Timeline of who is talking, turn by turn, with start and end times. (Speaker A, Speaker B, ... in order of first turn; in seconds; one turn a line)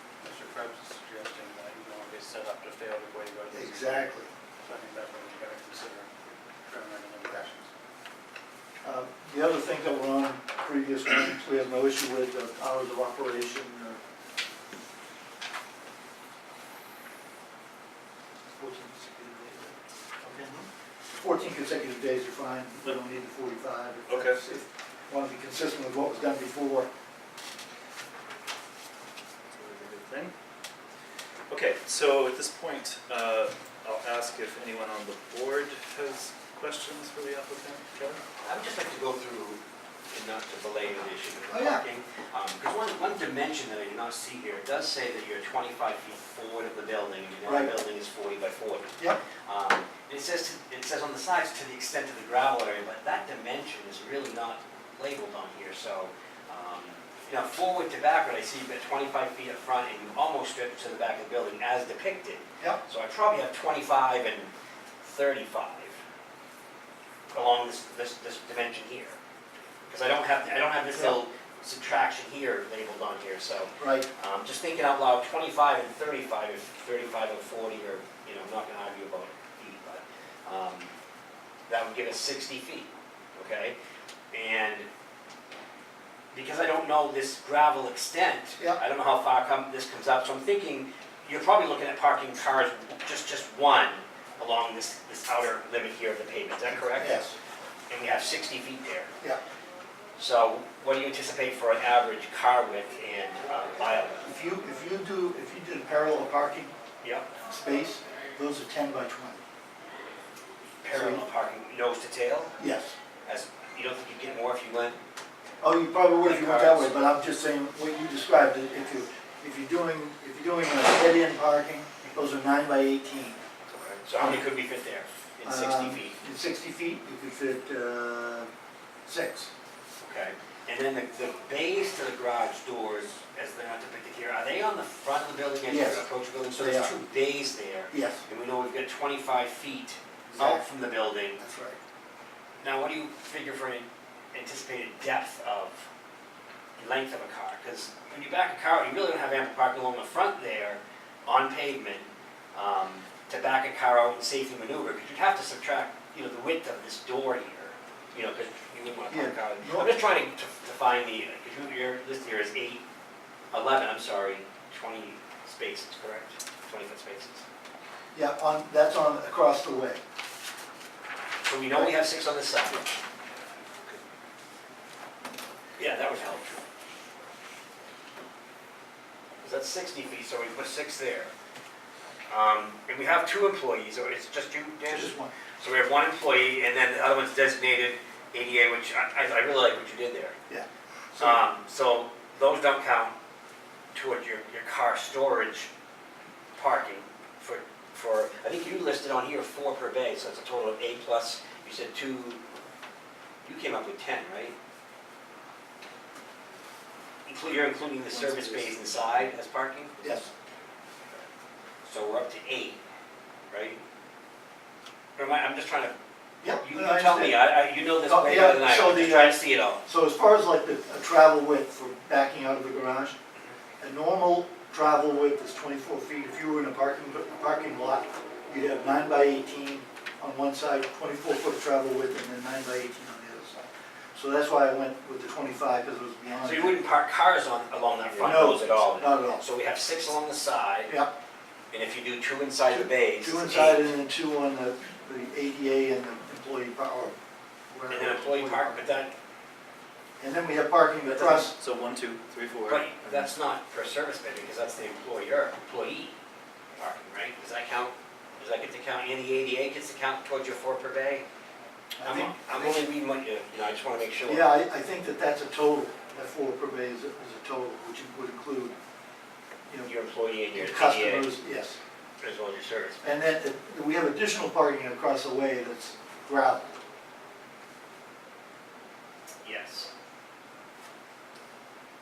Speaker A: 0.2-7.7
Speaker B: 3.5-4.3
Speaker B: 8.8-14.0
Speaker B: 18.6-20.6
Speaker B: 21.2-26.9
Speaker C: 24.1-24.4
Speaker C: 29.5-30.3
Speaker C: 31.5-38.2
Speaker D: 38.4-49.0
Speaker B: 41.5-41.8
Speaker B: 47.5-47.7
Speaker D: 49.5-64.5
Speaker D: 65.0-66.0
Speaker D: 67.3-69.2
Speaker D: 69.9-80.9
Speaker B: 73.8-74.1
Speaker D: 81.7-83.8
Speaker D: 84.3-84.9
Speaker D: 86.3-97.2
Speaker B: 96.7-97.3
Speaker D: 97.9-99.1
Speaker D: 100.2-104.3
Speaker B: 104.2-106.7
Speaker D: 107.0-107.3
Speaker B: 107.5-109.4
Speaker D: 110.8-112.5
Speaker B: 110.9-111.2
Speaker B: 112.6-113.0
Speaker D: 113.3-115.0
Speaker B: 115.6-123.4
Speaker D: 116.2-116.9
Speaker D: 123.7-126.2
Speaker B: 125.4-128.5
Speaker B: 129.1-129.5
Speaker D: 130.0-141.4
Speaker B: 135.7-136.1
Speaker B: 136.6-136.9
Speaker B: 137.9-138.2
Speaker B: 140.3-140.6
Speaker B: 141.4-141.8
Speaker D: 142.6-145.9
Speaker D: 146.8-162.8
Speaker B: 159.1-159.9
Speaker D: 163.5-167.4
Speaker B: 168.1-170.0
Speaker D: 171.4-172.8
Speaker D: 175.8-176.6
Speaker D: 179.4-181.3
Speaker D: 182.3-190.4
Speaker B: 184.9-185.3
Speaker B: 190.5-191.4
Speaker D: 191.2-193.2
Speaker D: 193.9-195.7
Speaker D: 196.6-202.4
Speaker D: 203.4-204.6
Speaker D: 207.3-210.2
Speaker B: 208.3-208.7
Speaker B: 210.0-210.3
Speaker D: 211.8-212.8
Speaker D: 213.5-213.8
Speaker D: 215.2-216.0
Speaker B: 216.4-217.4
Speaker D: 216.6-219.8
Speaker B: 218.1-223.2
Speaker B: 223.8-233.6
Speaker B: 234.1-236.8
Speaker D: 236.4-240.9
Speaker B: 238.2-239.4
Speaker B: 240.9-241.1
Speaker D: 241.7-243.9
Speaker B: 242.7-247.2
Speaker B: 247.7-248.9
Speaker D: 247.9-249.1
Speaker B: 250.2-251.6
Speaker C: 251.1-253.3
Speaker D: 252.7-256.1
Speaker D: 256.8-261.2
Speaker B: 262.0-262.8
Speaker D: 262.0-264.5
Speaker B: 264.3-268.8
Speaker D: 269.9-271.4
Speaker B: 270.6-271.8
Speaker D: 272.2-273.0
Speaker B: 273.0-276.7
Speaker D: 279.4-279.9